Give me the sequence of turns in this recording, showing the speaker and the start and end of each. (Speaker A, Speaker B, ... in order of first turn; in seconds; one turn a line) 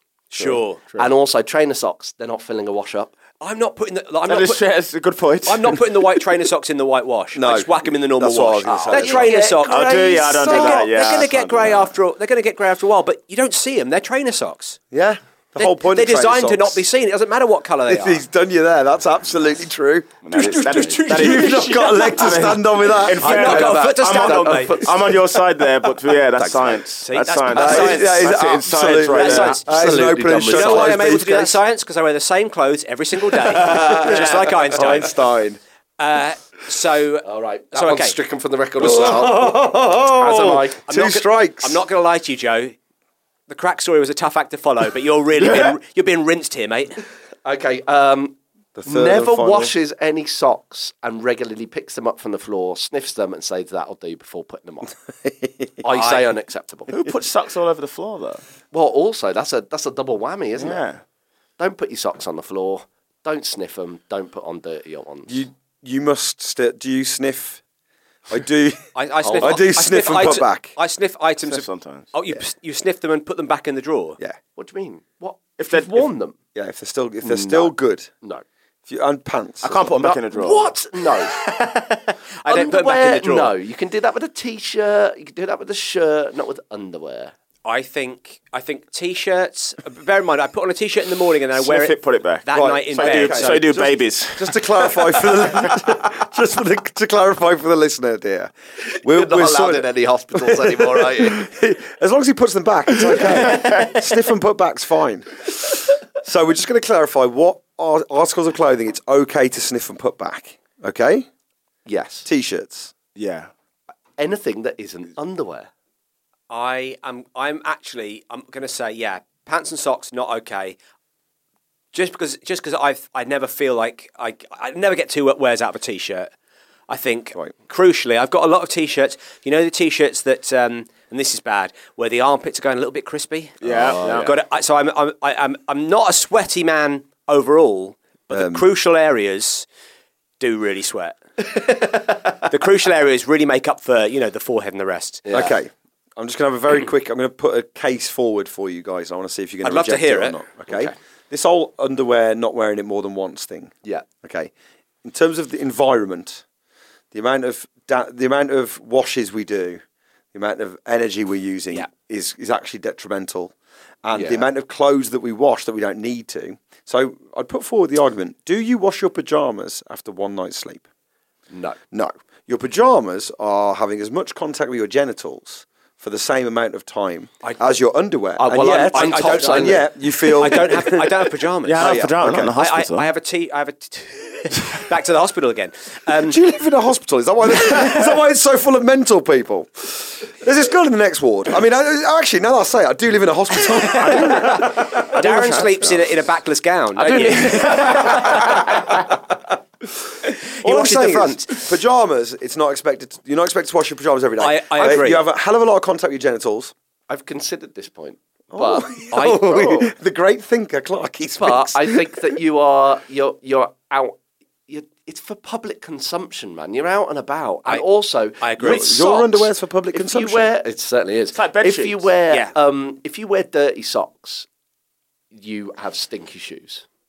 Speaker A: 0.3-0.8
Speaker B: 0.4-1.1
Speaker C: 1.0-3.1
Speaker A: 3.4-4.6
Speaker B: 4.3-5.8
Speaker A: 5.5-14.8
Speaker D: 7.3-9.6
Speaker C: 8.7-9.9
Speaker B: 9.7-11.9
Speaker D: 14.9-16.8
Speaker A: 15.6-18.2
Speaker D: 17.9-23.8
Speaker B: 20.2-29.6
Speaker A: 20.4-22.1
Speaker C: 23.2-25.1
Speaker A: 23.2-24.8
Speaker C: 26.4-26.7
Speaker A: 27.0-28.3
Speaker D: 27.5-31.6
Speaker A: 29.1-35.1
Speaker C: 29.6-31.1
Speaker D: 33.5-35.6
Speaker C: 33.7-34.1
Speaker A: 36.0-38.1
Speaker C: 37.2-40.8
Speaker D: 38.8-41.8
Speaker A: 40.9-42.8
Speaker A: 43.5-47.0
Speaker C: 47.4-54.9
Speaker D: 48.8-49.7
Speaker D: 55.1-55.8
Speaker C: 55.8-56.9
Speaker A: 55.9-56.3
Speaker B: 56.9-58.4
Speaker C: 58.7-60.8
Speaker B: 60.6-61.0
Speaker C: 61.6-65.4
Speaker D: 65.3-67.6
Speaker D: 68.3-70.7
Speaker A: 68.9-74.2
Speaker C: 69.2-69.6
Speaker B: 71.5-72.1
Speaker C: 74.5-76.4
Speaker B: 75.6-76.1
Speaker D: 76.5-78.1
Speaker C: 77.2-78.4
Speaker D: 78.9-80.0
Speaker B: 79.6-80.7
Speaker C: 80.0-81.5
Speaker A: 81.4-83.5
Speaker C: 82.5-87.3
Speaker A: 87.7-93.7
Speaker B: 91.5-95.5
Speaker D: 92.5-111.3
Speaker C: 99.0-101.5
Speaker B: 103.5-103.9
Speaker C: 111.8-112.3
Speaker D: 112.2-112.9
Speaker B: 113.2-113.5
Speaker C: 114.2-115.7
Speaker A: 116.5-120.8
Speaker A: 121.9-126.3
Speaker A: 126.9-139.7
Speaker B: 133.6-134.3
Speaker C: 133.8-134.1
Speaker D: 138.3-138.7
Speaker A: 140.4-141.2
Speaker A: 142.5-145.2
Speaker C: 145.2-145.6
Speaker D: 145.3-154.5
Speaker A: 149.6-150.4
Speaker D: 155.0-156.4
Speaker D: 157.1-159.8
Speaker D: 160.3-170.8
Speaker C: 164.1-164.4
Speaker C: 171.5-171.8
Speaker D: 171.9-181.1
Speaker C: 178.4-179.9
Speaker A: 178.6-186.4
Speaker B: 181.7-183.1
Speaker D: 181.8-182.5
Speaker D: 186.2-195.6
Speaker B: 194.0-194.4
Speaker A: 194.3-198.6
Speaker B: 197.0-198.9
Speaker D: 197.7-198.6
Speaker A: 200.6-201.6
Speaker D: 200.6-206.7
Speaker A: 204.4-205.2
Speaker C: 207.1-209.8
Speaker D: 208.5-212.3
Speaker A: 209.1-209.6
Speaker C: 211.4-214.2
Speaker C: 214.7-224.5
Speaker A: 218.4-219.1
Speaker D: 218.6-220.5
Speaker B: 221.3-222.1
Speaker A: 222.3-222.5
Speaker C: 225.3-226.8